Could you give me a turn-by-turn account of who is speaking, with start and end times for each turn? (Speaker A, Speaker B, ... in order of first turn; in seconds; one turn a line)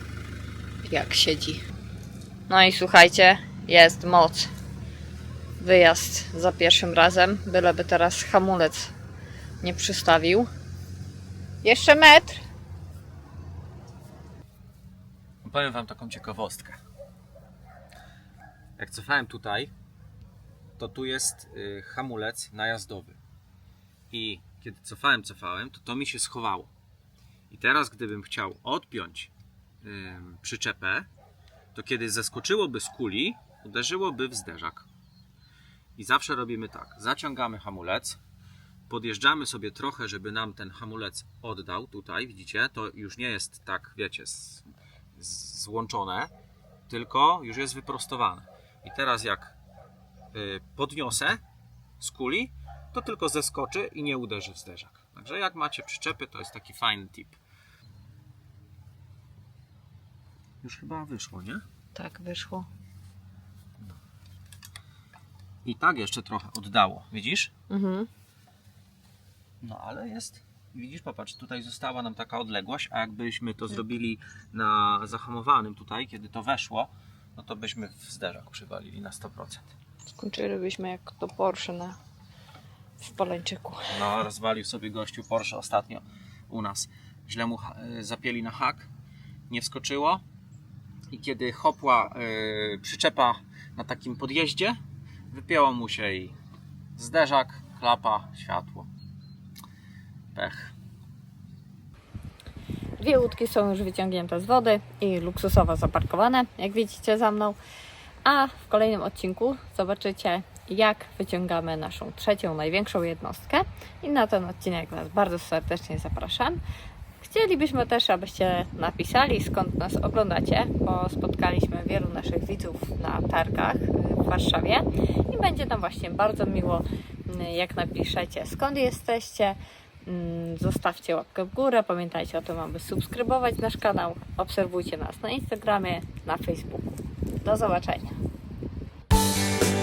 Speaker A: 0.8-1.6
Speaker A: 2.5-4.5
Speaker A: 5.6-8.9
Speaker A: 9.6-10.5
Speaker A: 11.6-12.4
Speaker B: 15.4-16.8
Speaker B: 18.8-19.7
Speaker B: 20.8-23.2
Speaker B: 24.1-26.7
Speaker B: 27.5-29.3
Speaker B: 29.8-31.1
Speaker B: 31.7-34.9
Speaker B: 36.0-38.2
Speaker B: 38.9-46.3
Speaker B: 46.9-49.5
Speaker B: 50.3-51.4
Speaker B: 52.0-57.4
Speaker B: 60.6-61.6
Speaker A: 62.0-62.7
Speaker B: 65.7-67.5
Speaker A: 67.7-68.1
Speaker B: 69.6-79.7
Speaker A: 80.1-82.0
Speaker A: 83.0-83.9
Speaker B: 83.9-88.9
Speaker B: 89.5-90.2
Speaker B: 91.1-94.8
Speaker B: 95.3-96.4
Speaker B: 97.0-98.9
Speaker B: 100.3-100.7
Speaker A: 103.0-107.6
Speaker A: 108.2-116.6
Speaker A: 117.2-136.9
Speaker A: 137.4-138.2